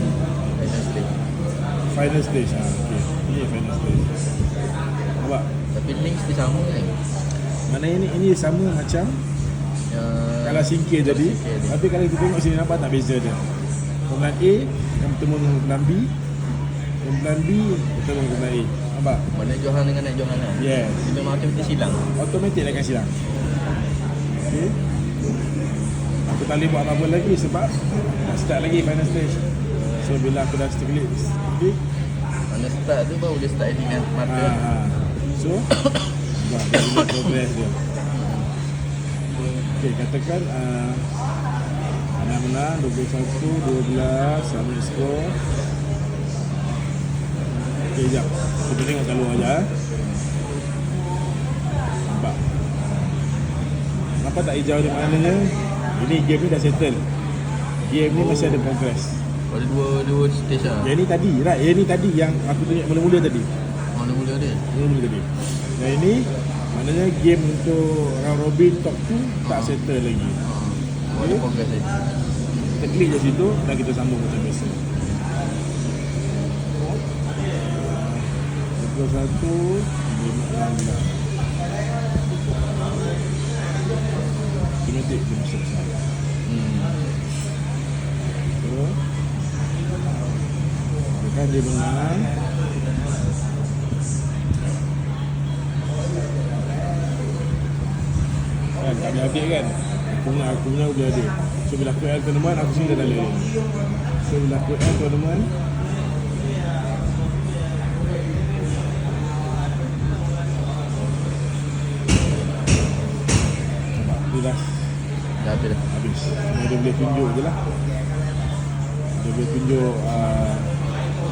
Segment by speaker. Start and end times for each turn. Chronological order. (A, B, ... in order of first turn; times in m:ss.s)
0:00.6-0:01.1 A
0:01.9-0:04.1 B
0:05.2-0:05.5 B
0:05.7-0:06.9 A
0:07.7-0:09.2 B
0:09.9-0:11.8 A
0:10.4-0:13.4 B
0:14.1-0:16.1 B
0:17.0-0:19.2 B
0:19.3-0:22.0 A
0:20.6-0:21.1 B
0:22.1-0:23.1 B
0:24.4-0:24.8 B
0:26.2-0:29.5 B
0:30.0-0:31.8 B
0:32.5-0:34.6 A
0:34.3-0:35.7 B
0:36.4-0:37.8 B
0:38.1-0:38.5 A
0:39.8-0:41.1 B
0:42.2-0:45.4 B
0:47.9-0:49.7 B
0:52.1-0:52.4 B
0:54.2-0:57.0 B
0:57.8-0:59.2 B
0:58.1-0:58.7 A
0:59.5-1:00.9 A
1:00.8-1:03.5 B
1:03.9-1:04.6 A
1:04.7-1:05.3 B
1:05.8-1:10.4 B
1:09.4-1:09.8 A
1:10.4-1:12.0 A
1:11.2-1:11.4 B
1:12.8-1:14.8 B
1:17.8-1:18.3 B
1:18.8-1:21.2 B
1:24.8-1:25.9 B
1:26.4-1:27.0 A
1:28.6-1:29.0 B
1:31.2-1:32.3 B
1:38.8-1:43.5 B
1:44.2-1:45.5 B
1:54.0-1:54.9 B
1:55.4-1:55.8 A
1:55.9-1:57.6 B
1:59.2-2:00.7 B